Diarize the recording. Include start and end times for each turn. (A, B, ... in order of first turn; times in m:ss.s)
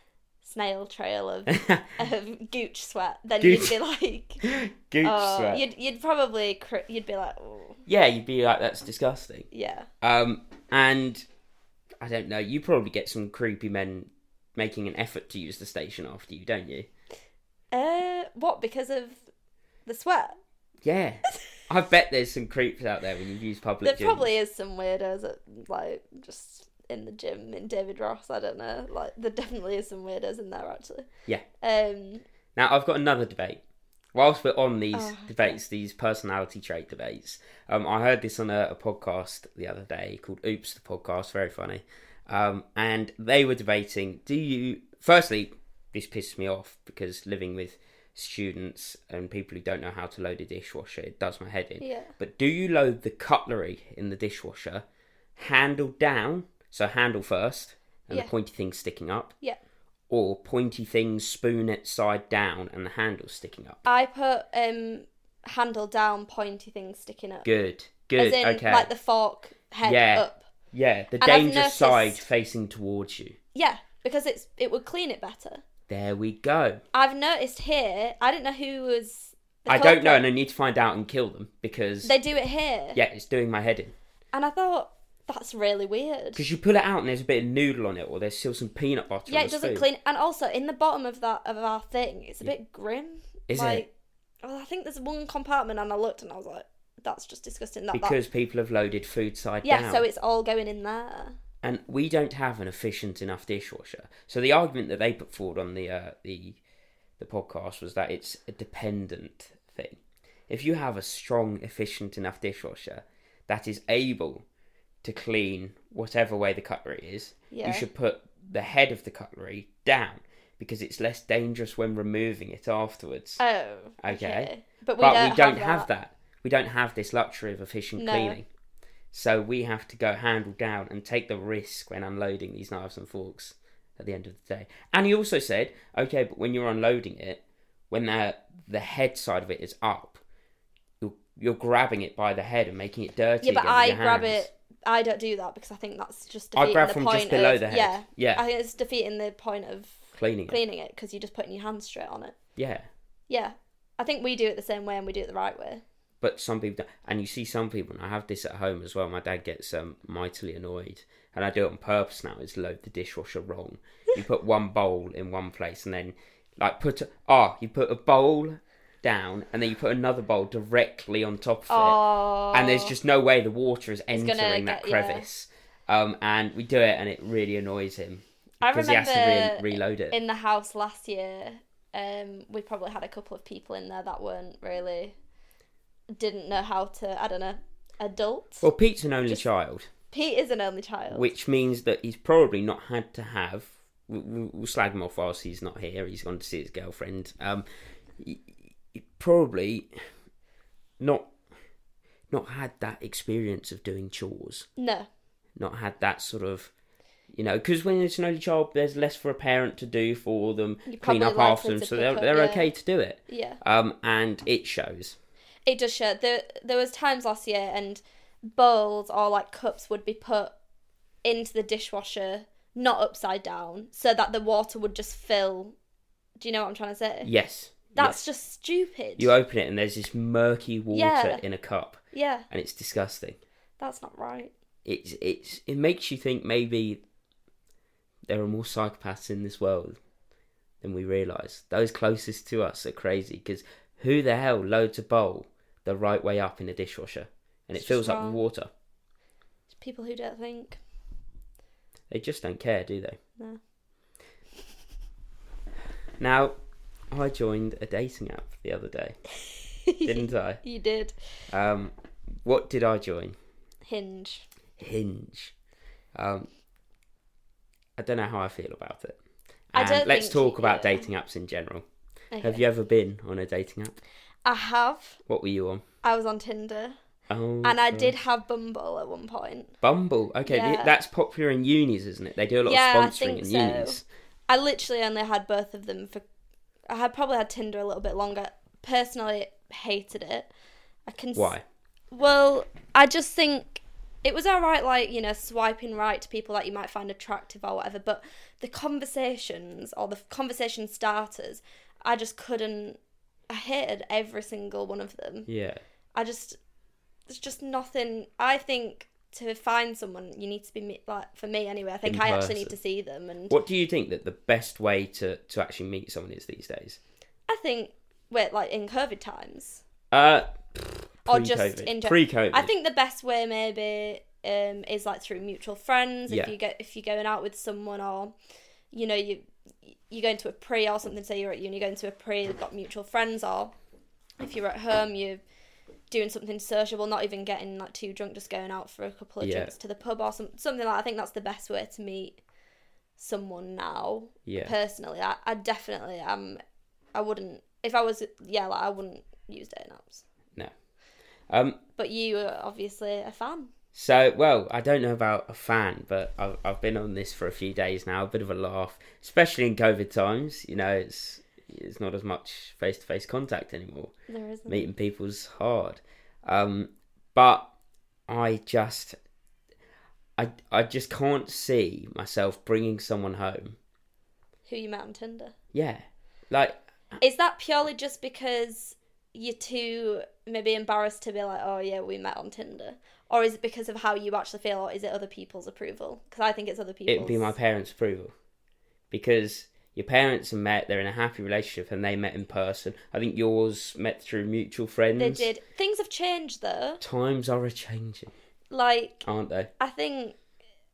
0:00.4-0:04.4 A
0:01.5-0:01.9 B
0:03.4-0:03.8 B
0:04.4-0:05.6 B
0:05.0-0:07.8 A
0:07.8-0:09.5 B
0:09.5-0:09.9 A
0:10.0-0:11.2 B
0:12.0-0:16.9 B
0:17.7-0:19.2 A
0:19.8-0:20.4 A
0:20.8-0:24.3 B
0:23.8-0:31.1 A
0:31.6-0:32.2 A
0:32.6-0:33.6 B
0:34.1-0:54.8 B
0:34.9-0:35.6 A
0:51.8-0:52.1 A
0:55.4-0:59.3 B
1:00.1-1:03.8 B
1:03.8-1:07.5 A
1:07.4-1:08.9 B
1:08.2-1:10.4 A
1:09.8-1:13.4 B
1:11.2-1:12.2 A
1:13.5-1:15.6 A
1:15.9-1:16.8 B
1:16.9-1:20.2 A
1:19.7-1:22.1 B
1:22.0-1:23.0 A
1:22.9-1:23.9 B
1:24.3-1:26.4 A
1:26.3-1:29.9 B
1:29.3-1:33.9 A
1:33.5-1:33.8 B
1:34.4-1:38.2 A
1:37.9-1:40.0 B
1:39.6-1:41.4 A
1:41.6-1:46.6 B
1:47.2-1:54.4 B
1:55.0-2:03.4 B
1:57.5-1:57.8 A
2:03.4-2:05.9 A
2:04.0-2:08.4 B
2:08.0-2:08.4 A
2:09.1-2:20.2 B
2:21.0-2:24.5 B
2:23.4-2:32.4 A
2:26.5-2:28.4 B
2:30.1-2:30.6 B
2:32.6-2:32.9 B
2:33.3-2:35.8 A
2:36.2-2:52.0 B
2:51.7-2:52.9 A
2:52.5-3:00.2 B
2:54.1-2:55.3 A
2:58.6-3:05.1 A
3:06.1-3:08.6 A
3:08.6-3:09.9 B
3:10.1-3:11.3 A
3:11.1-3:17.6 B
3:18.2-3:19.9 B
3:21.0-3:21.3 B
3:22.3-3:24.7 B
3:24.8-3:25.1 A
3:25.6-3:26.7 B
3:27.3-3:35.2 B
3:30.9-3:32.7 A
3:33.3-3:33.6 A
3:35.6-3:40.5 A
3:41.2-3:45.7 A
3:46.4-3:47.3 A
3:47.2-3:48.2 B
3:47.9-3:49.3 A
3:49.2-3:53.4 B
3:50.9-3:51.4 A
3:52.1-3:52.5 A
3:53.8-3:54.5 A
3:54.8-3:57.0 B
3:58.3-4:00.0 B
4:00.8-4:08.7 B
4:07.8-4:08.4 A
4:09.7-4:10.8 A
4:12.1-4:13.2 B
4:16.2-4:16.6 B
4:17.1-4:19.2 B
4:19.9-4:21.1 A
4:20.0-4:20.6 B
4:21.5-4:23.4 B
4:23.8-4:24.5 A
4:24.8-4:25.5 B
4:26.1-4:26.5 B
4:28.0-4:29.2 B
4:29.7-4:31.8 B
4:29.7-4:31.1 A
4:32.3-4:32.6 A
4:32.4-4:34.0 B
4:34.4-4:35.2 A
4:35.3-4:35.8 B
4:36.0-4:37.0 A
4:37.3-4:38.1 B
4:37.6-4:39.8 A
4:39.8-4:44.0 B
4:40.4-4:40.9 A
4:42.6-4:46.2 A
4:46.9-4:50.5 A
4:51.1-4:51.6 A
4:51.3-4:51.6 B
4:52.1-5:03.0 A
5:03.5-5:05.5 A
5:05.5-5:05.8 B
5:06.1-5:06.6 A
5:07.3-5:13.5 A
5:12.0-5:12.7 B
5:13.5-5:17.0 B
5:17.5-5:19.8 A
5:20.1-5:22.7 B
5:21.2-5:28.3 A
5:28.9-5:33.7 A
5:34.4-5:35.4 A
5:36.1-5:42.4 A
5:39.4-5:39.7 B
5:43.2-5:46.6 A
5:44.4-5:44.7 B
5:47.1-5:50.2 A
5:51.5-5:51.8 B
5:52.0-5:53.7 A
5:53.9-6:04.1 B
6:04.3-6:04.9 A
6:04.7-6:07.7 B
6:08.3-6:09.2 B
6:10.4-6:13.8 B
6:14.6-6:15.5 A
6:15.7-6:17.2 B
6:17.2-6:27.5 A
6:27.1-6:28.3 B
6:29.1-6:35.5 B
6:35.2-6:37.0 A
6:37.0-6:38.3 B
6:38.7-6:39.2 A
6:39.2-6:39.7 B
6:39.8-6:40.4 A